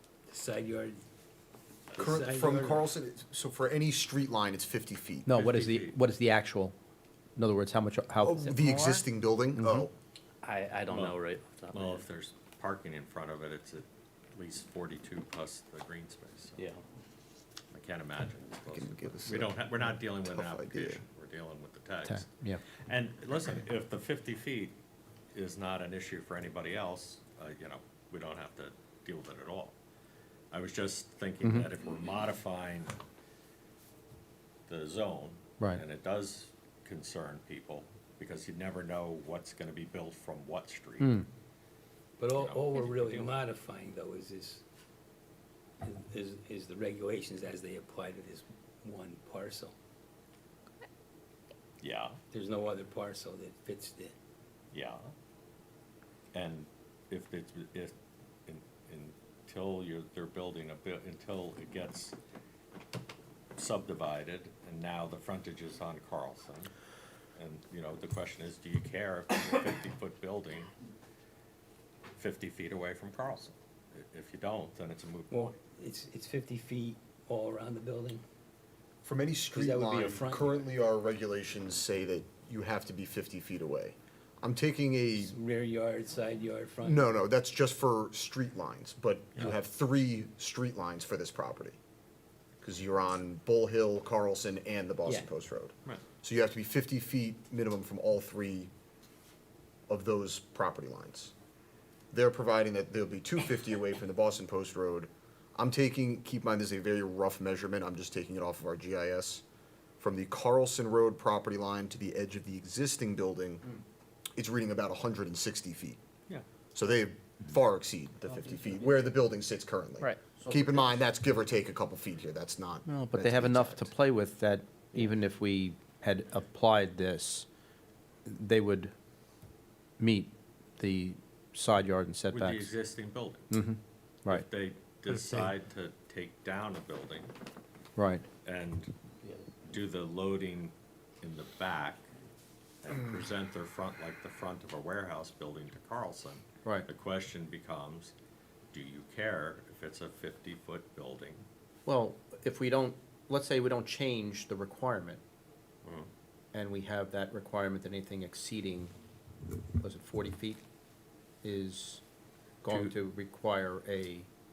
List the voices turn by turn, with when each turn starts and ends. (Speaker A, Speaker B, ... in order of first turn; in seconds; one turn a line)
Speaker A: 0.3-1.0
Speaker A: 1.9-2.9
Speaker B: 2.0-5.3
Speaker C: 5.3-6.8
Speaker D: 5.3-6.0
Speaker C: 7.4-8.8
Speaker B: 8.2-9.9
Speaker C: 9.6-9.9
Speaker E: 10.4-12.1
Speaker D: 10.9-11.2
Speaker D: 11.7-16.6
Speaker E: 16.6-16.8
Speaker D: 17.7-24.8
Speaker B: 18.7-21.0
Speaker C: 22.1-22.6
Speaker D: 25.3-29.8
Speaker D: 30.5-33.0
Speaker C: 31.4-31.7
Speaker D: 34.7-41.2
Speaker C: 41.0-41.3
Speaker A: 42.2-44.6
Speaker D: 42.4-43.3
Speaker A: 45.8-49.7
Speaker D: 51.8-52.2
Speaker A: 52.3-54.1
Speaker D: 54.7-55.1
Speaker D: 56.3-57.9
Speaker D: 58.5-62.1
Speaker D: 63.6-66.7
Speaker D: 67.4-70.7
Speaker D: 72.2-75.5
Speaker A: 75.3-78.2
Speaker B: 79.0-85.4
Speaker A: 79.5-80.8
Speaker A: 85.2-87.1
Speaker B: 86.8-91.8
Speaker B: 92.6-98.7
Speaker A: 95.0-95.3
Speaker B: 99.9-101.3
Speaker B: 102.1-109.4
Speaker B: 110.0-113.8
Speaker B: 114.3-116.0
Speaker B: 116.8-123.9
Speaker C: 122.9-127.5
Speaker C: 128.2-128.9
Speaker C: 130.0-132.8
Speaker D: 132.3-133.5
Speaker C: 133.5-134.4
Speaker D: 134.3-137.3
Speaker C: 138.0-138.3
Speaker D: 138.4-138.9
Speaker D: 139.7-142.1
Speaker D: 142.8-148.1
Speaker D: 148.7-151.4
Speaker C: 151.9-155.2
Speaker D: 155.8-156.1
Speaker C: 156.5-158.9
Speaker C: 159.8-160.6
Speaker C: 161.4-162.0
Speaker C: 162.6-164.3
Speaker D: 162.7-162.9